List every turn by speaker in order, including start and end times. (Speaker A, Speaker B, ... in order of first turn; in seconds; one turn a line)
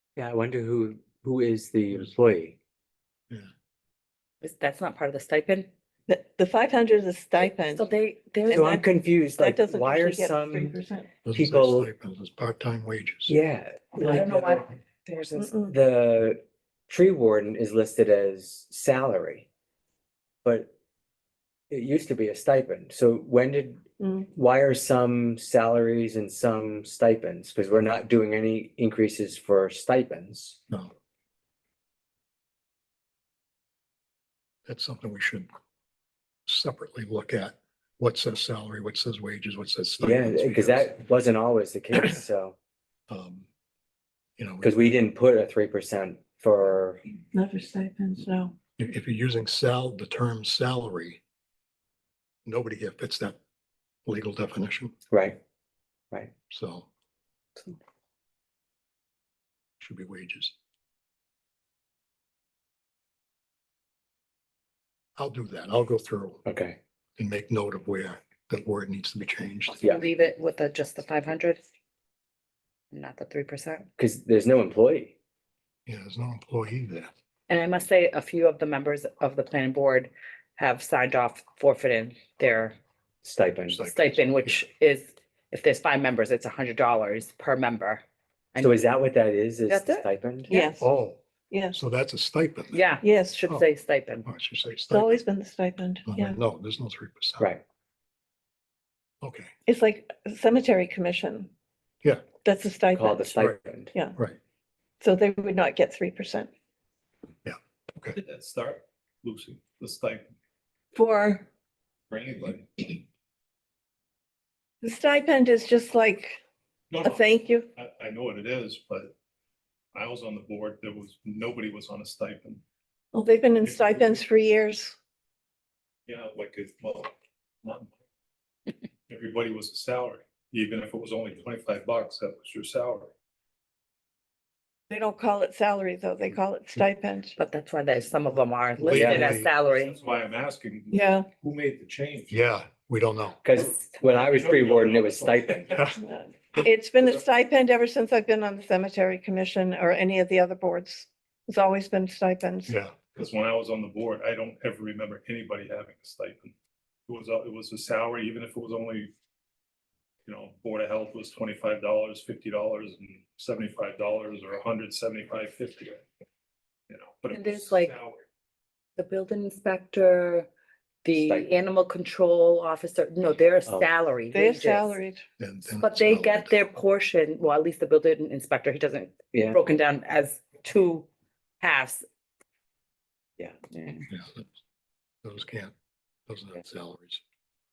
Speaker A: 0.2-2.6
Speaker B: 4.4-5.7
Speaker C: 6.1-7.9
Speaker B: 7.4-8.8
Speaker C: 8.4-8.9
Speaker A: 8.5-10.8
Speaker C: 9.4-11.1
Speaker D: 11.2-13.3
Speaker A: 11.3-11.9
Speaker A: 13.3-14.6
Speaker B: 13.9-15.5
Speaker C: 15.4-15.7
Speaker A: 15.5-19.5
Speaker A: 20.4-20.7
Speaker A: 21.7-30.6
Speaker C: 24.0-24.3
Speaker D: 34.7-35.5
Speaker D: 36.5-40.9
Speaker A: 40.0-42.6
Speaker D: 43.1-43.5
Speaker D: 44.4-44.7
Speaker A: 44.6-47.0
Speaker C: 47.3-48.5
Speaker D: 48.8-51.2
Speaker D: 52.5-53.4
Speaker D: 54.0-54.9
Speaker A: 55.1-55.4
Speaker D: 56.5-56.9
Speaker D: 59.8-60.5
Speaker D: 65.2-66.4
Speaker A: 66.5-66.8
Speaker D: 67.2-69.8
Speaker B: 69.7-71.7
Speaker B: 72.9-73.9
Speaker A: 74.0-75.1
Speaker D: 75.9-77.1
Speaker B: 77.5-82.8
Speaker A: 83.2-83.8
Speaker D: 83.7-84.6
Speaker B: 83.8-88.0
Speaker B: 88.5-88.8
Speaker A: 88.6-90.5
Speaker B: 89.7-90.7
Speaker C: 90.5-90.9
Speaker D: 90.8-91.2
Speaker C: 91.5-91.8
Speaker D: 91.7-92.8
Speaker B: 92.7-94.2
Speaker C: 93.0-93.5
Speaker D: 94.2-95.2
Speaker C: 94.9-96.4
Speaker D: 96.1-97.5
Speaker D: 99.2-99.5
Speaker C: 99.7-101.5
Speaker C: 102.4-103.4
Speaker A: 102.9-103.9
Speaker C: 105.0-106.5
Speaker D: 107.5-108.2
Speaker E: 108.2-110.3
Speaker C: 110.9-111.5
Speaker E: 112.1-113.0
Speaker C: 114.8-116.4
Speaker E: 116.9-119.1
Speaker C: 117.0-117.7
Speaker E: 119.9-122.6
Speaker C: 123.1-125.0
Speaker E: 123.6-124.2
Speaker E: 126.1-128.0
Speaker E: 129.1-133.1
Speaker C: 134.9-137.4
Speaker B: 137.4-140.0
Speaker D: 138.8-139.5
Speaker A: 138.9-139.3
Speaker E: 139.0-142.4
Speaker C: 140.9-141.3
Speaker D: 142.3-143.4
Speaker A: 143.4-145.8
Speaker E: 144.1-146.0
Speaker D: 145.7-146.0
Speaker C: 146.0-152.7
Speaker D: 152.7-152.9
Speaker E: 153.1-156.5
Speaker E: 157.1-159.1
Speaker E: 160.3-166.0
Speaker E: 166.9-168.2
Speaker B: 167.3-168.0
Speaker B: 169.0-170.5
Speaker B: 171.0-175.0
Speaker A: 171.2-171.5
Speaker C: 174.3-175.2
Speaker D: 175.4-176.7
Speaker B: 175.8-181.1
Speaker A: 179.3-179.6
Speaker B: 181.6-182.1
Speaker B: 183.7-184.1
Speaker D: 184.1-184.4
Speaker D: 185.2-185.7
Speaker D: 186.3-187.2